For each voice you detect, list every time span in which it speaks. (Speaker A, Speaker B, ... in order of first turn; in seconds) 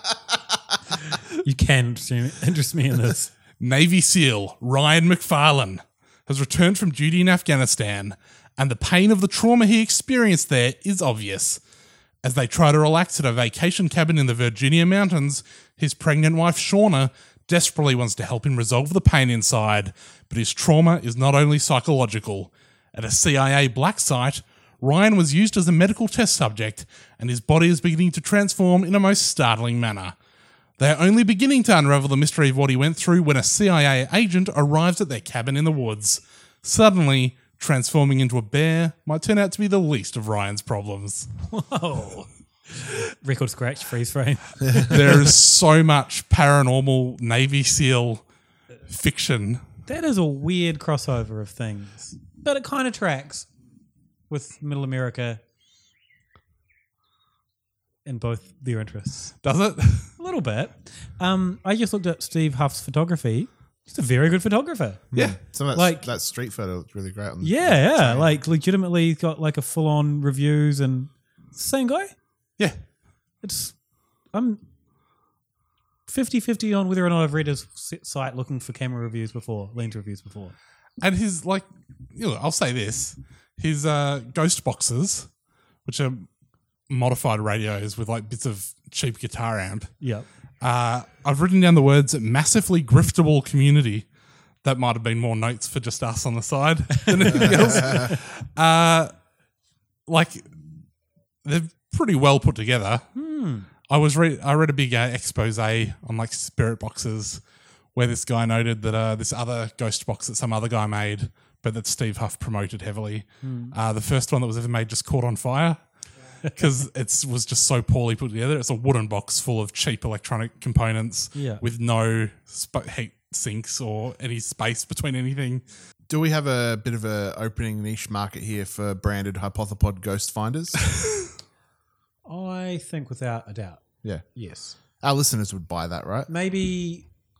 Speaker A: 1.4-3.3, 41.5-45.0, 49.9-53.5, 54.3-55.4, 58.0-59.3, 60.2-65.0, 65.7-66.1, 67.4-72.1, 73.4-73.8, 74.3-74.6, 76.1-80.5, 90.0-90.2, 97.0-98.2, 103.1-103.7, 113.4-113.7, 121.3-121.6, 132.2-133.8, 134.3-134.8, 136.3-137.1
Speaker B: 3.6-11.6, 12.2-30.1, 30.8-41.3, 44.8-48.2, 48.9-49.6, 59.4-60.1, 81.0-85.3, 85.8-86.3, 86.9-89.9, 90.6-94.0, 94.6-99.1, 100.1-100.5, 101.4-103.0, 103.9-107.4, 107.9-115.8, 116.5-125.6
Speaker C: 65.1-68.3, 97.3-98.1, 126.1-130.8, 135.0-136.3